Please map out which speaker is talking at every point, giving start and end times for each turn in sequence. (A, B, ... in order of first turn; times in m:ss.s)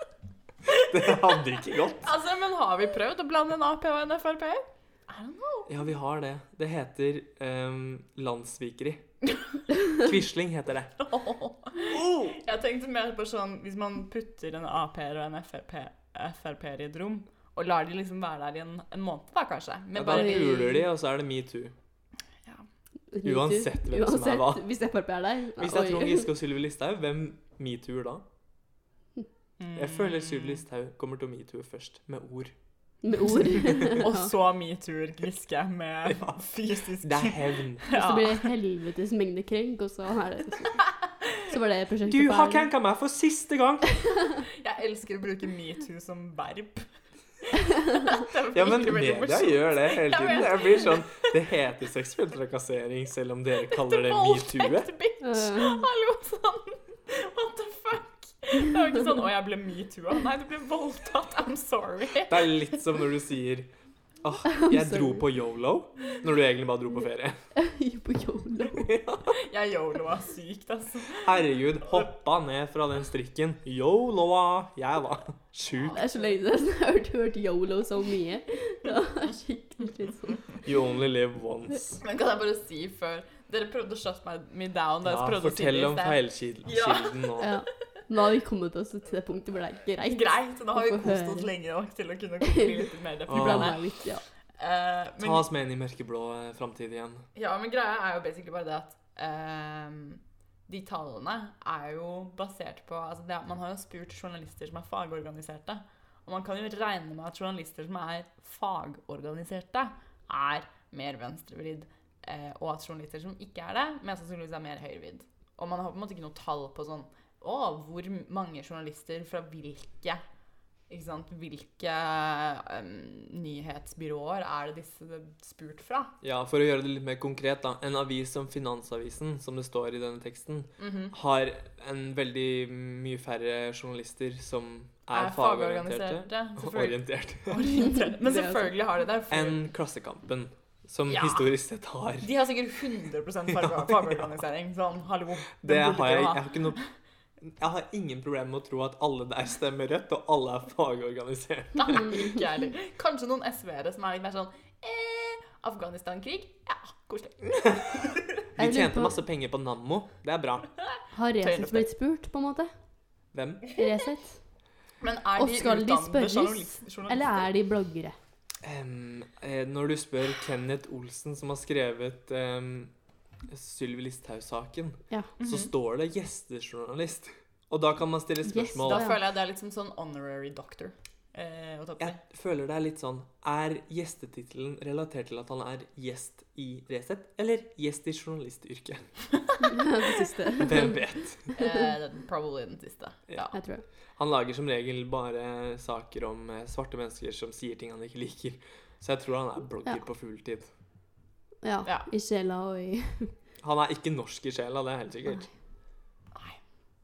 0:00.8-0:02.1 A
0:02.0-0:05.7 B
0:05.7-0:09.0 A
0:09.9-0:10.9 A
0:11.0-0:20.8 B
0:11.9-0:12.4 A
0:19.9-0:21.7 A
0:20.1-0:20.7 C
0:23.1-0:26.3 C
0:23.2-0:24.6 A
0:25.6-0:28.2 A
0:29.6-0:30.6 B
0:29.7-0:32.5 A
0:33.0-0:34.3 C
0:33.9-0:38.5 B
0:36.1-0:36.4 A
0:37.0-0:37.8 A
0:37.9-0:42.7 C
0:42.0-0:43.9 A
0:44.5-0:47.0 B
0:47.5-0:51.3 B
0:48.5-0:54.9 A
0:53.7-1:02.6 B
0:55.2-0:55.8 C
1:02.3-1:03.7 A
1:04.2-1:07.4 A
1:04.5-1:05.2 C
1:07.6-1:08.9 C
1:08.6-1:09.3 A
1:09.4-1:11.4 B
1:11.2-1:16.0 A
1:15.7-1:16.4 B
1:15.9-1:20.5 C
1:20.6-1:22.0 A
1:22.0-1:27.4 B
1:25.0-1:27.5 A
1:27.4-1:31.5 C
1:30.0-1:35.4 B
1:32.5-1:34.2 C
1:33.3-1:33.8 A
1:35.2-1:37.2 A
1:37.3-2:00.2 B
2:00.9-2:06.1 B
2:06.2-2:17.7 A
2:10.8-2:11.1 B
2:15.1-2:19.6 B
2:18.2-2:18.7 C
2:19.3-2:22.3 A
2:21.1-2:21.5 B
2:22.2-2:26.9 B
2:23.6-2:24.3 A
2:25.6-2:26.8 A
2:27.4-2:32.1 A
2:31.8-2:38.3 B
2:38.6-2:40.7 A
2:38.6-2:39.2 C
2:41.1-2:42.7 C
2:41.4-2:41.9 B
2:43.3-2:43.7 A
2:43.7-2:44.4 C
2:45.0-2:47.5 B
2:45.4-2:48.2 C
2:48.6-2:52.9 A
2:53.5-2:59.1 A
2:55.4-2:55.7 B
2:58.4-2:59.2 C
2:58.8-3:02.2 B
3:02.0-3:09.2 A
3:09.6-3:11.8 C
3:10.6-3:11.4 A
3:11.5-3:13.6 B
3:13.5-3:13.8 C
3:14.2-3:20.7 A
3:21.6-3:23.3 C
3:23.6-3:25.5 A
3:26.3-3:26.6 B